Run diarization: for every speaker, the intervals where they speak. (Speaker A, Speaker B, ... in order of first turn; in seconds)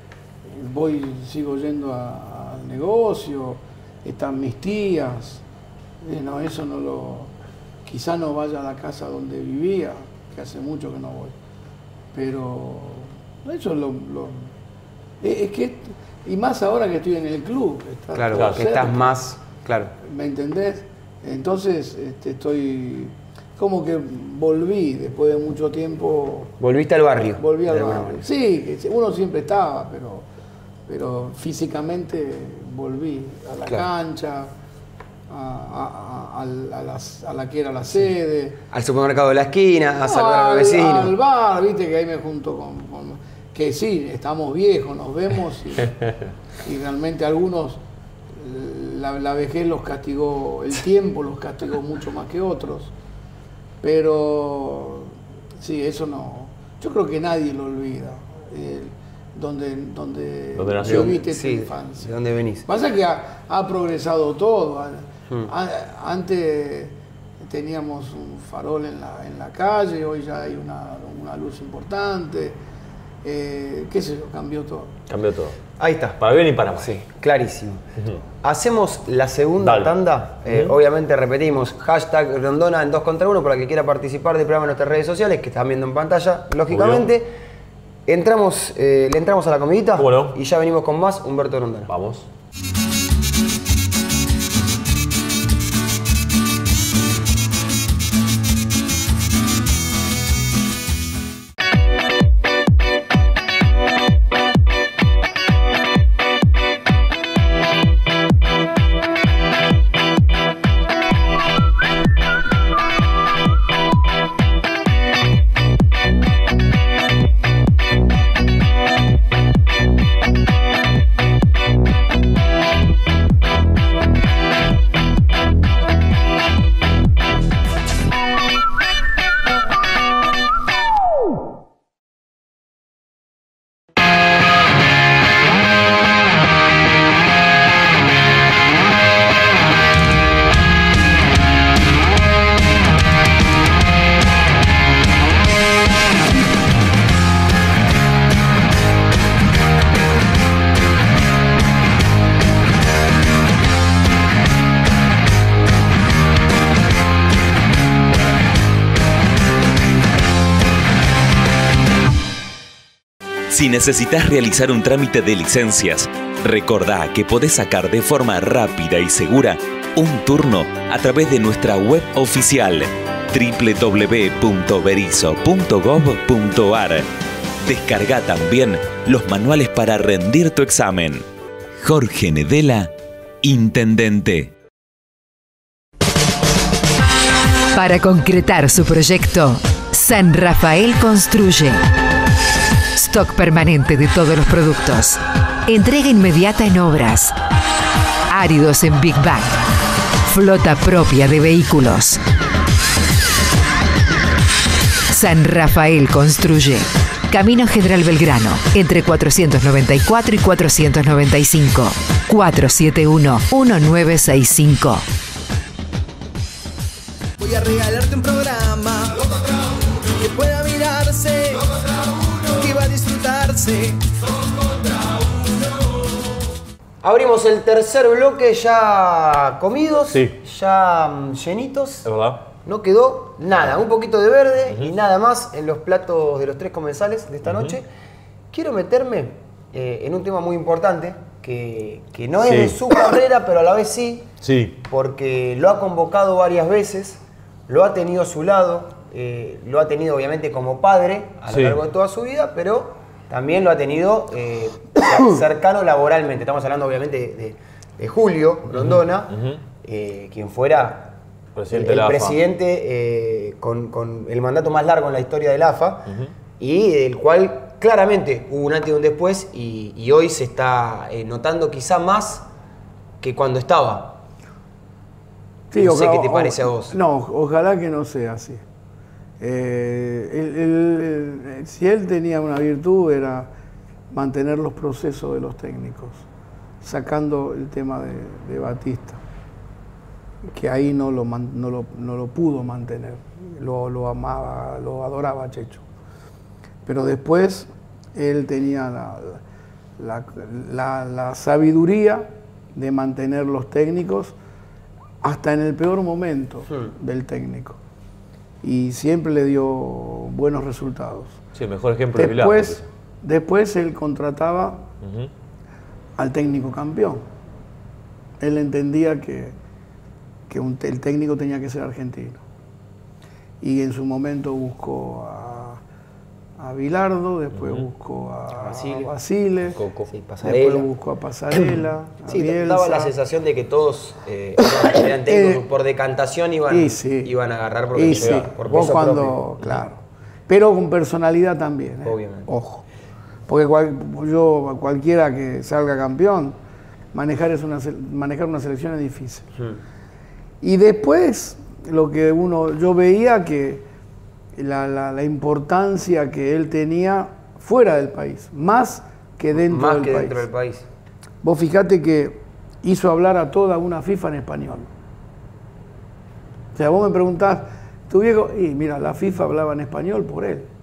Speaker A: 0.5-5.4, 6.0-7.3, 7.8-11.3, 12.1-14.5, 15.2-19.1, 20.0-26.5, 27.4-30.3, 30.9-34.5, 35.3-38.6, 40.0-45.9, 46.6-47.8, 48.4-52.9, 53.8-62.1, 62.7-72.6, 73.2-75.0, 275.7-278.6, 279.4-283.5, 284.1-286.2, 286.8-289.2, 290.4-295.8, 296.9-299.4, 300.0-304.4, 305.2-307.8, 308.6-311.4, 312.1-314.9, 316.2-317.3, 318.4-319.6, 320.5-322.4, 323.6-325.8, 326.6-329.8, 330.4-333.1, 334.6-335.6, 336.7-337.3, 337.9-342.8, 343.5-346.6, 347.1-349.5, 350.6-353.9, 354.6-360.4, 361.4-364.9, 366.8-370.7
Speaker B: 18.1-19.9, 26.6-28.2, 38.7-41.1, 60.9-62.7, 75.8-76.2, 76.8-77.8, 78.4-87.3, 88.1-91.9, 227.0-232.1, 232.7-237.8, 238.5-244.3, 244.9-261.1, 261.7-266.1, 266.6-272.4, 273.2-274.2, 275.8-277.0, 306.7-306.9, 328.6-329.1, 330.1-330.9, 332.3-339.8, 342.1-342.6, 359.6-360.9
Speaker C: 18.4-18.6, 60.6-61.2, 75.1-75.6, 76.2-77.0, 79.6-79.9, 80.5-80.7, 86.7-87.1, 90.0-90.4, 91.9-92.3, 230.1-230.4, 232.1-232.4, 237.4-237.8, 242.4-242.8, 244.4-244.8, 251.5-251.8, 258.7-259.6, 261.6-262.4, 311.6-312.9, 315.0-315.3, 327.5-327.9, 329.7-330.1
Speaker D: 163.5-177.1, 177.6-181.2, 181.8-182.9, 183.4-184.5
Speaker E: 187.7-191.8, 193.0-197.3, 198.3-199.5, 200.3-202.2, 205.1-215.1
Speaker F: 217.4-219.3, 220.2-221.8, 222.5-224.1